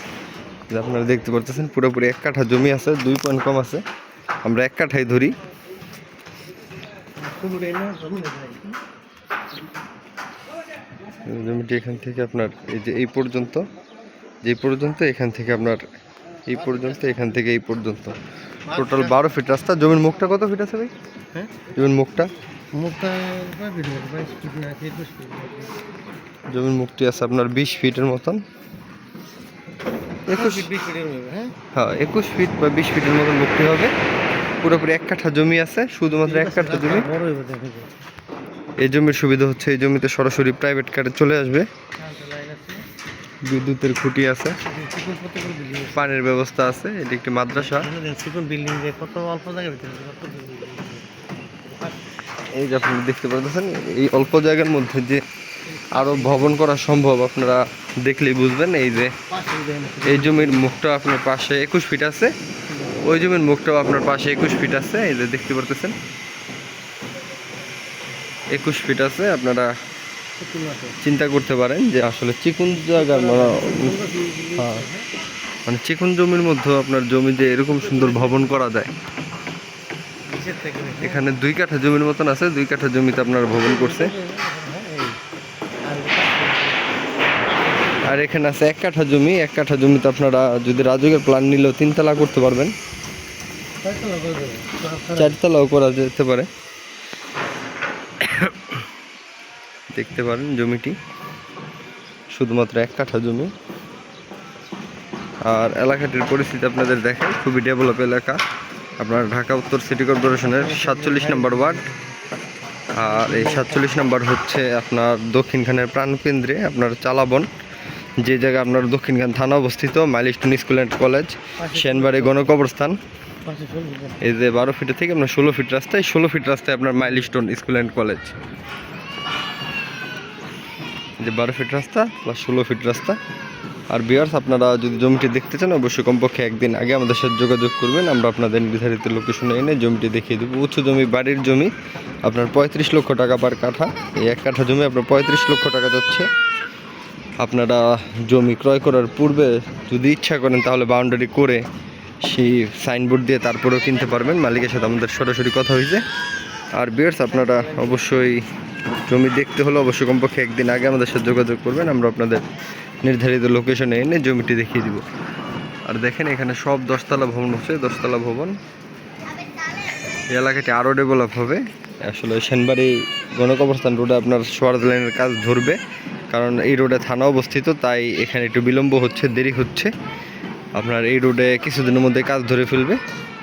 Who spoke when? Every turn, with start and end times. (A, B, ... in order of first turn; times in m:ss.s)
0:00.7-0:03.8 A
0:04.4-0:05.4 A
0:07.2-0:08.8 B
0:11.2-0:13.6 A
0:14.4-0:15.8 A
0:16.5-0:18.2 A
0:18.7-0:19.2 B
0:18.7-0:20.9 A
0:21.7-0:22.3 A
0:22.7-0:25.8 B
0:26.5-0:28.4 A
0:30.3-0:30.7 A
0:30.3-0:31.5 B
0:31.7-0:33.9 A
0:34.6-0:37.1 A
0:36.0-0:37.9 B
0:38.8-0:41.7 A
0:42.0-0:42.9 B
0:43.4-0:44.6 A
0:44.6-0:46.1 B
0:45.9-0:47.9 A
0:47.5-0:51.1 B
0:51.6-0:52.1 B
0:52.5-0:55.2 A
0:55.7-0:56.6 B
0:55.9-0:59.1 A
0:59.3-1:00.6 B
1:00.0-1:02.3 A
1:03.0-1:06.0 A
1:08.5-1:09.7 A
1:10.4-1:11.0 B
1:11.0-1:13.9 A
1:12.6-1:15.1 B
1:14.6-1:14.8 A
1:15.6-1:18.9 A
1:17.8-1:18.5 B
1:20.3-1:21.3 B
1:21.0-1:24.1 A
1:23.4-1:25.2 B
1:25.8-1:27.0 B
1:27.6-1:28.1 B
1:28.0-1:32.7 A
1:33.8-1:35.4 B
1:35.1-1:36.5 A
1:38.2-1:38.6 A
1:39.9-1:41.0 A
1:42.3-1:43.5 A
1:45.5-1:48.4 A
1:49.0-1:51.8 A
1:50.4-1:52.1 B
1:52.9-1:57.5 A
1:53.0-1:54.1 B
1:58.2-2:03.0 A
2:01.6-2:02.5 B
2:03.4-2:04.2 B
2:04.2-2:08.4 A
2:11.2-2:13.2 A
2:13.9-2:21.7 A
2:22.2-2:26.3 A
2:27.4-2:31.6 A
2:32.2-2:36.0 A
2:36.8-2:38.4 A
2:37.3-2:38.0 B
2:39.1-2:42.4 A
2:43.0-2:45.0 A
2:45.9-2:48.6 A
2:50.3-2:55.8 A
2:56.3-2:59.9 A
3:00.8-3:03.0 A